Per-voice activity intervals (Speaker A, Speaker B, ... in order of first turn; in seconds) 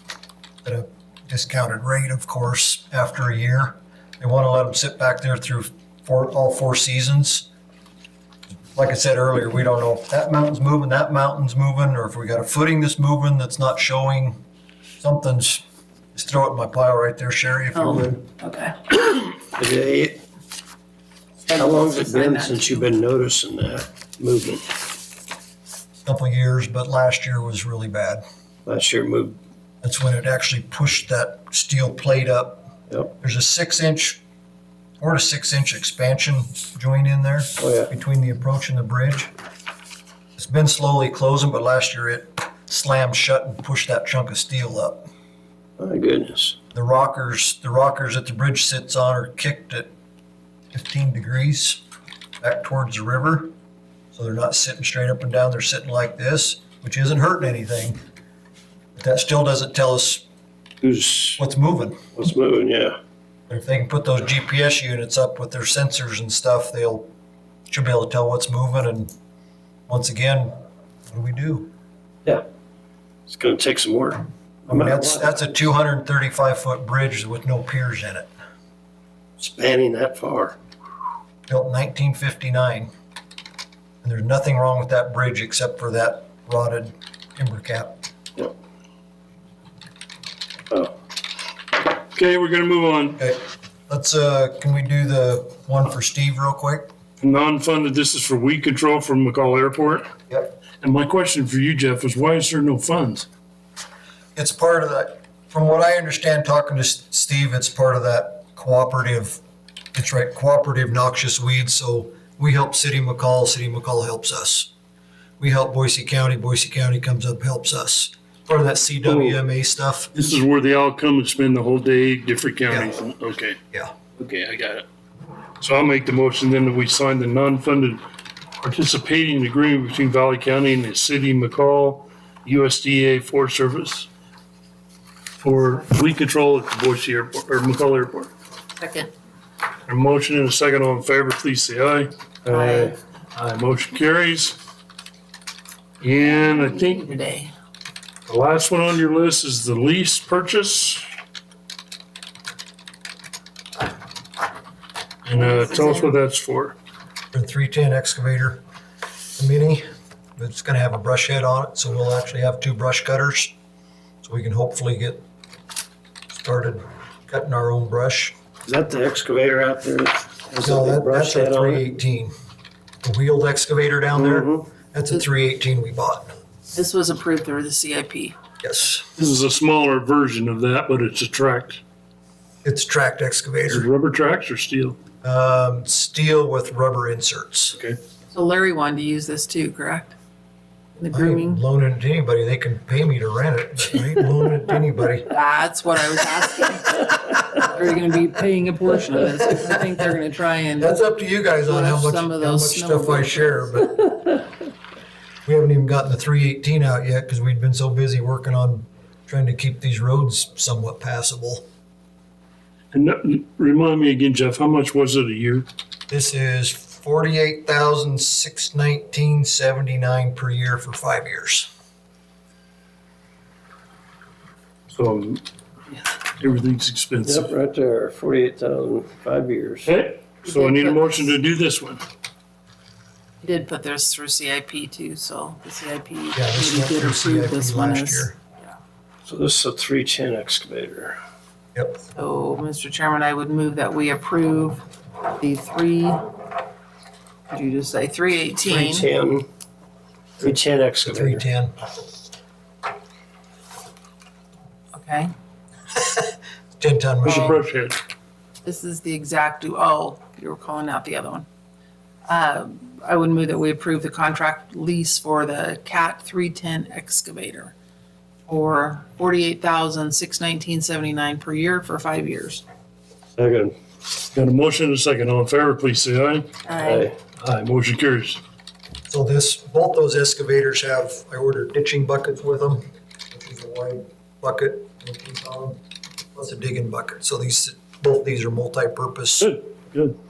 Speaker A: 0.6-7.5, 8.8-14.4, 15.0-15.6, 16.1-18.2, 26.1-28.2, 29.8-34.2, 35.0-39.3, 40.4-45.1, 46.7-49.9, 50.7-51.8, 52.4-53.5, 54.1-58.0, 59.0-60.2, 61.4-62.0, 63.5-67.1, 67.7-69.1, 69.9-70.5, 71.1-71.7, 74.7-78.3, 81.5-82.9, 84.0-88.0, 93.2-96.9, 104.4-109.4, 109.9-114.7, 115.4-120.1, 157.3-158.6, 159.4-159.9, 160.4-163.5, 164.2-165.2, 166.3-168.3, 170.6-172.3, 173.0-176.3, 178.6-179.1, 182.6-183.9, 185.2-187.8, 191.1-195.3, 200.8-204.1, 205.4-211.6, 216.1-221.7, 236.3-238.4, 241.8-242.0, 251.0-251.7, 256.8-257.6, 279.1-285.8, 286.3-289.6
Speaker B: 17.7-18.8, 21.4-22.9, 138.8-139.1, 142.5-142.9, 146.1-147.5, 155.4-156.1, 176.7-178.4, 188.3-190.2, 191.0-191.6, 195.3-201.0, 201.6-203.8, 230.4-231.3, 233.4-238.7, 242.1-244.8, 245.4-246.2, 247.5-249.1, 254.9-255.3, 257.3-257.6, 258.6-261.5, 262.3-267.8, 268.5-272.6, 276.6-277.1
Speaker C: 19.6-20.2, 21.5-24.7, 28.7-29.4, 37.6-37.9, 45.8-46.6, 60.8-61.4, 62.1-63.0, 73.3-75.5, 79.4-80.6, 142.5-142.9, 168.7-171.9, 174.1-174.7, 227.2-229.9, 239.3-241.2, 248.7-249.5, 250.4-251.4, 273.4-273.8, 276.8-277.1
Speaker D: 92.1-93.2, 97.2-100.1, 100.8-103.3, 120.2-123.6, 124.2-124.8, 125.6-128.0, 128.6-134.1, 135.4-138.3, 139.9-142.1, 142.7-144.6, 146.0-147.1, 148.3-151.1, 155.2-156.8, 179.2-181.8, 183.7-185.0, 212.9-215.7, 224.9-227.5, 229.8-232.0, 257.2-258.0, 274.3-276.5, 277.4-278.4, 289.4-290.2